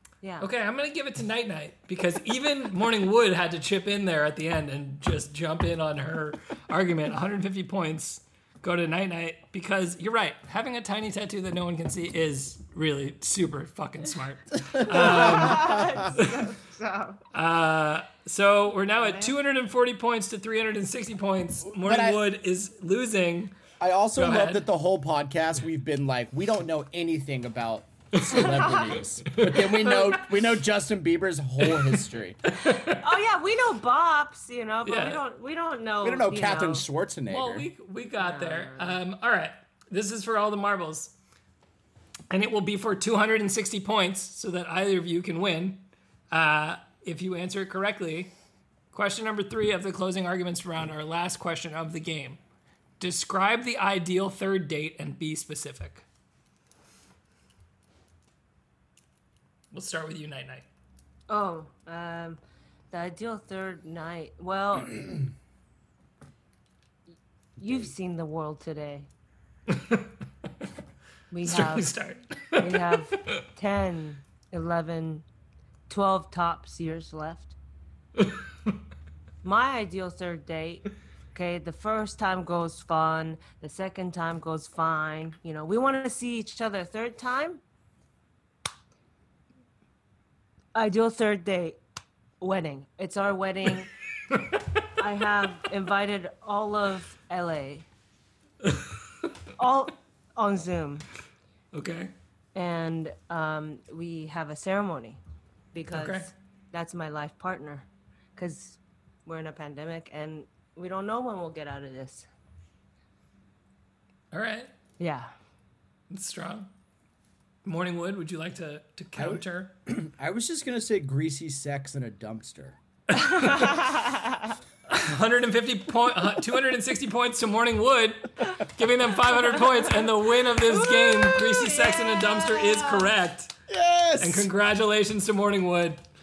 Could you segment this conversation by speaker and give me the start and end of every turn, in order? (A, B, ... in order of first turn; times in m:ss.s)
0:00.2-0:00.5 A
0:00.4-0:16.4 B
0:14.7-0:16.1 C
0:14.9-0:17.2 A
0:17.3-0:23.5 B
0:19.0-0:19.3 A
0:21.7-0:22.2 C
0:23.8-0:32.4 C
0:24.2-0:24.7 B
0:29.2-0:30.3 B
0:32.4-0:33.0 B
0:32.7-0:36.8 A
0:34.8-0:35.2 B
0:36.0-0:37.7 C
0:37.3-0:41.2 B
0:38.2-0:39.0 A
0:42.3-0:48.3 B
0:48.9-0:52.4 B
0:53.0-0:56.0 B
0:59.7-1:00.7 B
1:01.3-1:02.4 A
1:02.9-1:05.2 A
1:07.6-1:09.1 A
1:09.7-1:10.1 B
1:11.3-1:11.9 A
1:11.4-1:13.3 B
1:12.6-1:15.3 A
1:15.9-1:17.6 A
1:19.4-1:27.6 A
1:30.7-1:31.8 A
1:32.4-1:33.9 A
1:34.3-1:34.6 B
1:35.0-1:37.9 A
1:38.6-1:39.3 B
1:39.6-1:41.1 A
1:41.7-1:42.1 B
1:42.6-1:45.2 A
1:45.7-1:52.3 A
1:45.9-1:46.3 B
1:54.3-1:54.7 B
1:55.0-1:55.3 A
1:56.1-1:56.7 B
1:57.6-1:59.7 B
1:59.2-2:02.8 C
2:03.2-2:04.4 A
2:03.3-2:03.9 B
2:04.9-2:13.5 B
2:10.6-2:13.1 A
2:13.7-2:14.5 C
2:14.2-2:16.0 B